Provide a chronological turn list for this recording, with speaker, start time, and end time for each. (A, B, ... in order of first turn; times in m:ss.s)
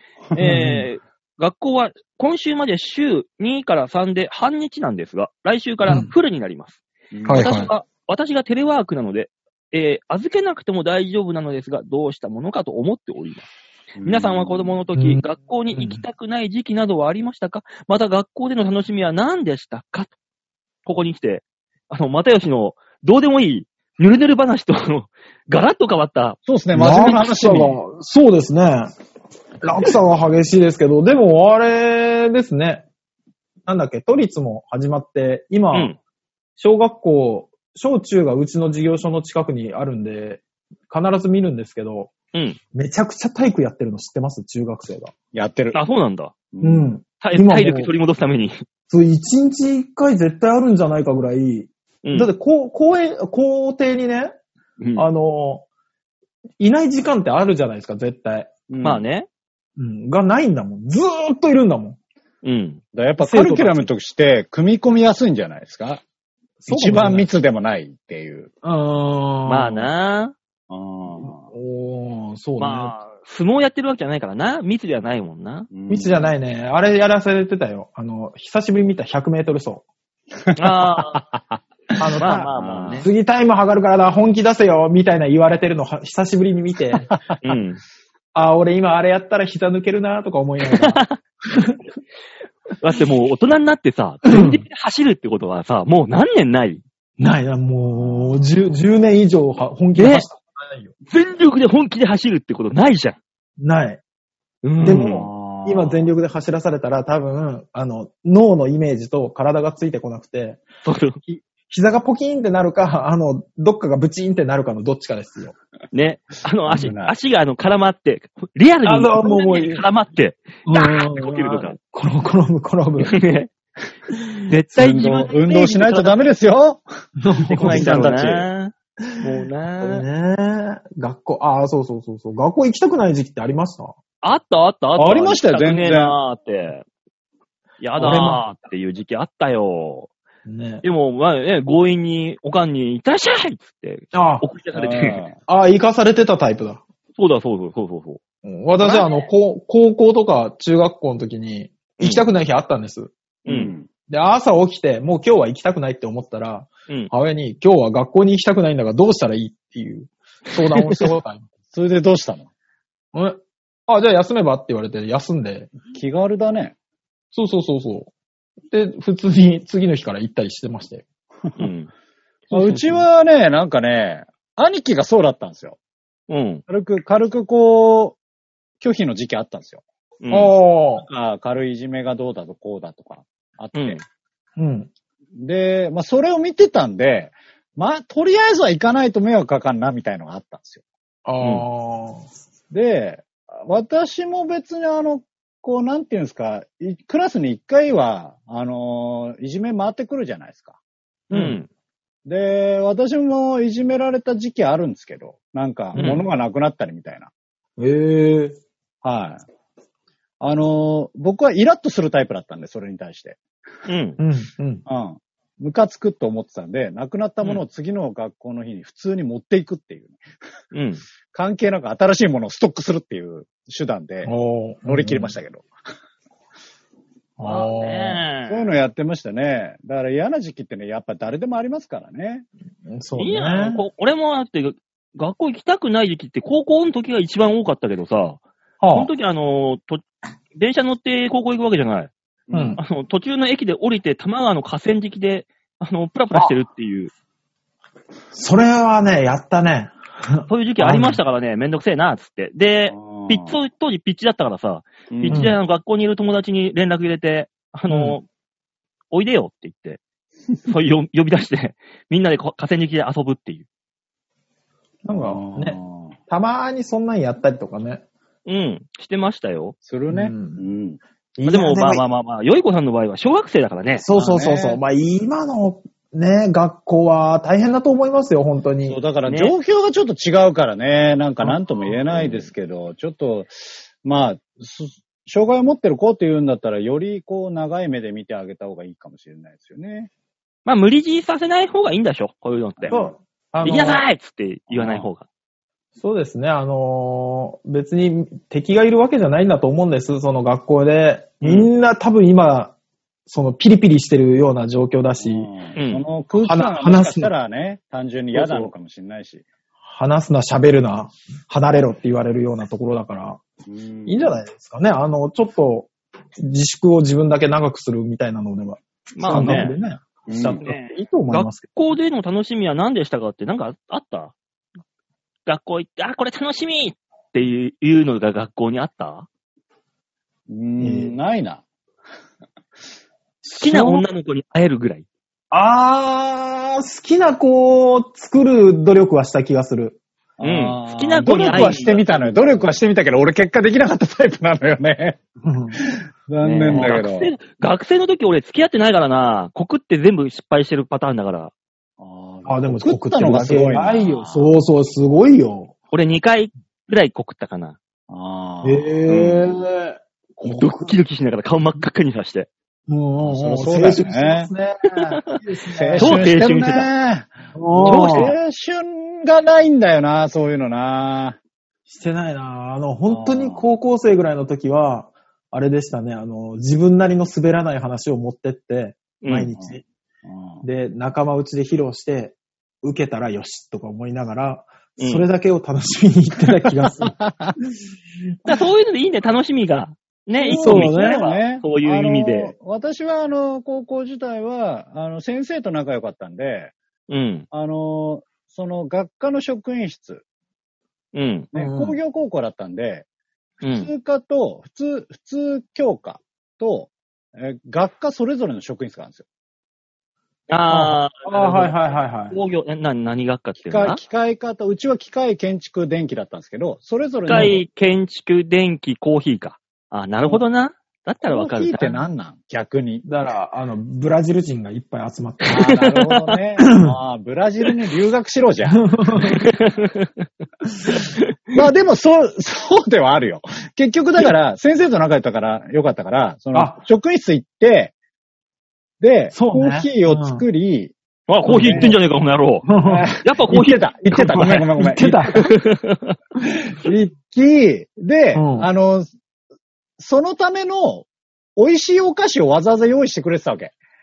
0:00.4-0:06.8 A
0:00.4-0:00.9 B
0:05.8-0:06.1 B
0:07.1-0:07.6 C
0:07.2-0:07.7 B
0:07.3-0:13.5 A
0:14.0-0:14.7 C
0:14.0-0:20.1 A
0:15.0-0:15.2 B
0:15.7-0:16.0 B
0:20.8-0:26.4 A
0:26.4-0:27.8 C
0:26.7-0:28.9 B
0:29.6-0:32.8 B
0:33.6-0:35.9 B
0:36.6-0:42.1 B
0:42.7-0:45.1 B
0:45.3-0:45.8 C
0:45.7-0:46.3 A
0:46.5-0:46.9 C
0:46.6-0:47.9 B
0:47.2-0:48.6 A
0:48.9-0:54.3 B
0:52.0-0:52.3 A
0:54.8-0:55.1 A
0:55.0-0:55.6 B
0:56.6-0:58.5 B
0:58.7-0:59.0 C
0:58.8-0:59.3 A
0:59.8-1:02.0 B
1:02.4-1:02.8 A
1:02.9-1:06.0 C
1:03.2-1:03.9 B
1:06.6-1:07.3 B
1:06.7-1:08.5 C
1:08.6-1:09.9 B
1:09.5-1:10.3 A
1:10.7-1:11.5 C
1:11.2-1:12.9 B
1:12.6-1:15.7 A
1:15.7-1:16.3 C
1:15.9-1:19.8 B
1:20.5-1:22.0 C
1:20.6-1:21.2 A
1:22.0-1:27.1 B
1:22.2-1:23.1 A
1:22.5-1:23.0 C
1:27.1-1:27.4 C
1:27.4-1:27.8 A
1:28.3-1:31.8 B
1:30.8-1:31.2 A
1:32.8-1:36.8 A
1:34.2-1:34.6 B
1:37.2-1:40.9 B
1:37.9-1:38.5 C
1:40.0-1:40.2 A
1:41.1-1:43.2 A
1:43.6-1:44.0 B
1:44.6-1:45.3 A
1:44.8-1:50.6 B
1:44.8-1:46.1 C
1:50.8-1:51.2 A
1:51.2-1:55.5 B
1:55.9-2:01.8 A
1:56.7-1:57.1 C
1:58.8-1:59.8 B
2:00.6-2:03.2 B
2:03.0-2:03.5 A
2:04.5-2:06.2 A
2:04.8-2:06.8 C
2:07.2-2:08.1 B
2:07.5-2:10.0 A
2:07.6-2:08.5 C
2:09.8-2:13.9 B
2:14.2-2:16.8 A
2:15.0-2:16.2 C
2:17.8-2:20.1 A
2:18.0-2:18.4 B
2:20.4-2:20.8 B
2:20.8-2:25.2 A
2:24.1-2:24.5 B
2:24.7-2:25.4 C
2:25.5-2:26.8 B
2:27.2-2:28.2 A
2:28.4-2:33.1 B
2:28.8-2:29.1 A
2:32.0-2:32.3 A
2:33.4-2:33.7 A
2:33.4-2:33.9 C
2:34.1-2:41.5 B
2:40.7-2:41.1 A
2:41.7-2:42.5 C
2:43.1-2:45.7 B
2:45.9-2:46.7 C
2:47.3-2:48.1 B
2:48.7-2:51.0 B
2:51.6-2:51.9 A
2:52.5-2:53.0 B
2:52.5-2:55.8 C
2:56.3-2:56.6 A
2:56.7-2:58.2 C
2:58.8-2:59.8 C
3:00.2-3:00.5 A
3:00.3-3:01.0 B
3:01.0-3:04.0 C
3:03.7-3:04.0 A
3:04.6-3:04.9 B
3:05.4-3:10.8 C
3:11.2-3:12.2 B
3:12.7-3:20.7 C
3:21.3-3:21.6 B
3:21.3-3:21.7 A
3:22.2-3:27.3 C
3:25.9-3:26.2 A
3:27.8-3:28.6 B
3:29.0-3:29.4 C
3:30.4-3:33.4 C
3:33.8-3:34.2 A
3:34.2-3:34.8 B
3:34.9-3:40.2 C
3:40.7-3:41.0 A
3:41.3-3:44.3 C
3:44.2-3:45.4 B
3:44.8-3:45.6 C
3:47.4-3:48.2 B
3:47.4-3:48.7 A
3:48.5-3:52.5 C
3:52.8-3:53.8 B
3:53.2-3:58.4 A
3:58.8-3:59.1 B
3:58.9-4:00.0 A
4:00.5-4:02.1 A
4:02.5-4:02.8 C
4:02.5-4:02.8 B
4:02.8-4:07.1 A
4:08.3-4:11.2 B
4:10.5-4:18.2 A
4:12.9-4:13.6 C
4:15.1-4:15.5 C
4:15.3-4:15.6 B
4:17.9-4:18.2 B
4:19.1-4:20.0 A
4:20.6-4:23.6 A
4:25.0-4:28.0 B
4:25.1-4:26.2 C
4:28.4-4:29.8 A
4:29.8-4:31.0 C
4:30.1-4:30.6 B
4:31.4-4:32.0 B
4:31.4-4:34.0 A
4:34.0-4:39.0 B
4:34.2-4:34.8 C
4:38.8-4:50.1 C
4:39.2-4:39.5 A
4:41.4-4:42.5 B
4:50.6-4:53.0 A
4:52.8-4:53.1 C
4:52.9-4:54.0 B
4:53.6-4:55.2 A
4:54.7-4:55.1 C
4:56.0-5:02.7 B
5:01.4-5:01.7 A
5:03.3-5:05.5 B
5:05.2-5:09.4 C
5:05.8-5:06.0 A
5:06.4-5:07.3 B
5:08.3-5:08.7 B
5:09.8-5:13.4 B
5:13.7-5:14.4 C
5:14.0-5:21.6 B
5:19.2-5:19.8 A
5:19.2-5:19.7 C
5:20.3-5:20.7 C
5:20.6-5:24.3 A
5:25.4-5:29.3 A
5:30.5-5:31.6 C
5:30.8-5:31.1 B
5:33.4-5:34.1 B
5:33.6-5:35.0 A
5:35.5-5:40.0 B
5:40.4-5:45.2 C
5:40.4-5:42.2 A
5:41.5-5:41.8 B
5:45.4-5:45.8 B
5:45.8-5:47.3 C
5:46.4-5:51.5 A
5:46.7-5:47.0 B
5:52.0-5:54.5 C
5:52.4-5:55.7 B
5:55.9-5:57.8 A
5:58.1-5:59.3 C
5:58.6-6:01.0 B
5:59.1-5:59.5 A
6:00.4-6:02.5 A
6:02.9-6:06.2 B
6:03.2-6:04.5 C
6:05.8-6:11.4 C
6:06.0-6:06.9 A
6:07.5-6:08.3 B
6:07.8-6:08.3 A
6:11.9-6:19.8 B
6:13.0-6:13.7 C
6:19.2-6:19.5 A
6:19.5-6:20.6 C
6:20.6-6:27.2 B
6:25.0-6:25.3 A
6:26.8-6:27.6 C
6:28.4-6:32.5 A
6:30.4-6:36.7 C
6:30.5-6:31.2 B
6:37.1-6:37.4 A
6:37.5-6:40.2 C
6:41.1-6:41.4 A
6:41.5-6:43.0 C
6:41.5-6:42.0 B
6:43.6-6:43.9 A
6:43.6-6:49.2 C
6:50.5-6:54.0 A
6:50.7-6:52.4 B
6:53.6-6:57.6 C
6:57.3-7:02.0 A
6:57.3-6:57.6 B
7:01.2-7:03.0 C
7:03.0-7:05.9 B
7:05.4-7:06.2 A
7:05.5-7:09.4 C
7:06.6-7:06.9 B
7:08.7-7:09.4 B
7:09.3-7:10.3 A
7:10.6-7:11.1 B
7:10.9-7:11.3 A
7:11.5-7:17.9 C
7:16.5-7:16.8 B
7:19.0-7:20.9 C
7:19.3-7:20.4 B
7:21.3-7:22.7 A
7:21.4-7:21.9 C
7:21.4-7:22.0 B
7:22.6-7:23.1 B
7:22.8-7:25.5 C
7:23.2-7:23.8 A
7:24.1-7:25.5 B
7:24.3-7:24.6 A
7:25.3-7:26.2 A
7:26.8-7:29.1 C
7:28.3-7:28.7 B
7:30.0-7:31.0 C
7:31.6-7:33.7 C